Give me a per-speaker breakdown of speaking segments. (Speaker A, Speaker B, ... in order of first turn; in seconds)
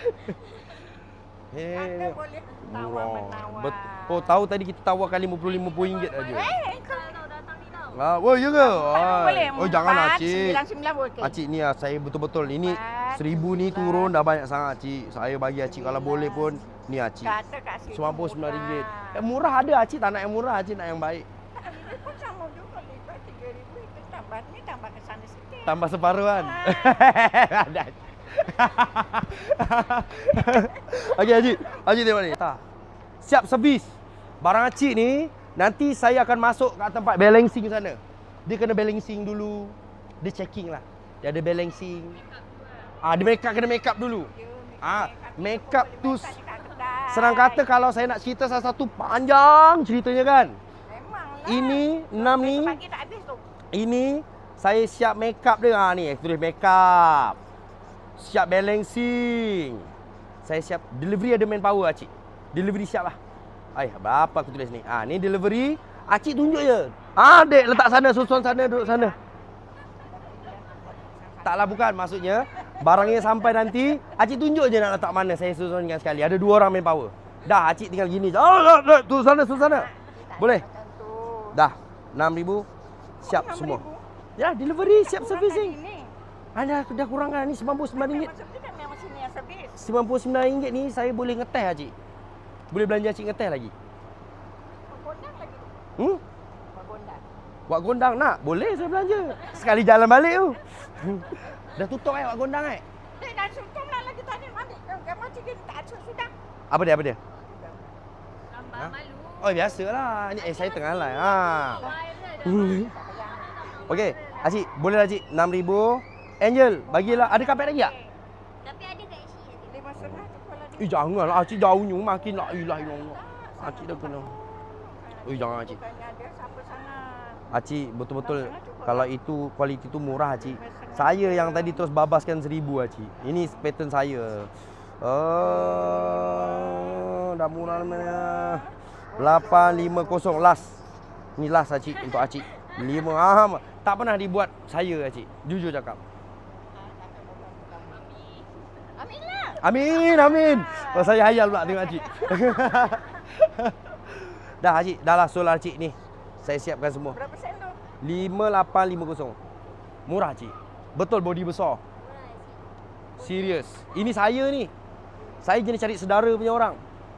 Speaker A: 1.5-6.5, 7.9-10.6, 11.2-17.4, 17.9-21.3, 25.7-32.6, 33.2-42.2, 43.0-44.3, 44.8-46.4, 47.1-50.6, 51.5-52.8, 53.7-57.4, 58.2-59.9, 60.4-63.2, 63.8-69.2, 71.4-80.6, 81.5-82.7, 83.2-83.8, 84.4-85.8, 86.5-88.3, 89.8-91.9, 92.7-93.7, 97.7-102.8, 106.7-107.2, 108.7-111.9, 112.4-112.9, 113.8-117.9, 120.0-124.3, 125.2-125.8, 127.5-134.5, 135.0-138.6, 139.2-140.8, 141.4-146.0, 149.6-157.2, 158.0-159.4, 160.1-161.8, 163.2-164.7, 165.4-166.8
Speaker B: 1.7-4.4, 6.3-7.2, 8.6-11.4, 12.6-14.2, 15.6-16.7, 17.2-19.3, 21.6-27.1, 30.3-31.8, 44.2-47.8, 50.9-53.4, 67.6-69.2, 70.0-72.0, 72.5-73.5, 79.5-81.6, 83.2-84.0, 84.8-86.1, 88.0-89.8, 94.8-95.9, 96.7-97.2, 103.1-106.3, 107.4-107.9, 110.4-114.1, 116.9-118.1, 119.6-121.2, 122.1-127.5, 128.2-129.1, 130.4-131.8, 133.2-133.7, 135.6-137.0, 137.6-140.6, 146.7-148.2, 148.9-153.0, 157.1-157.8, 163.2-163.7
Speaker C: 5.5-8.0, 108.5-109.8, 111.1-114.7, 118.6-119.8, 148.0-148.5, 162.0-162.7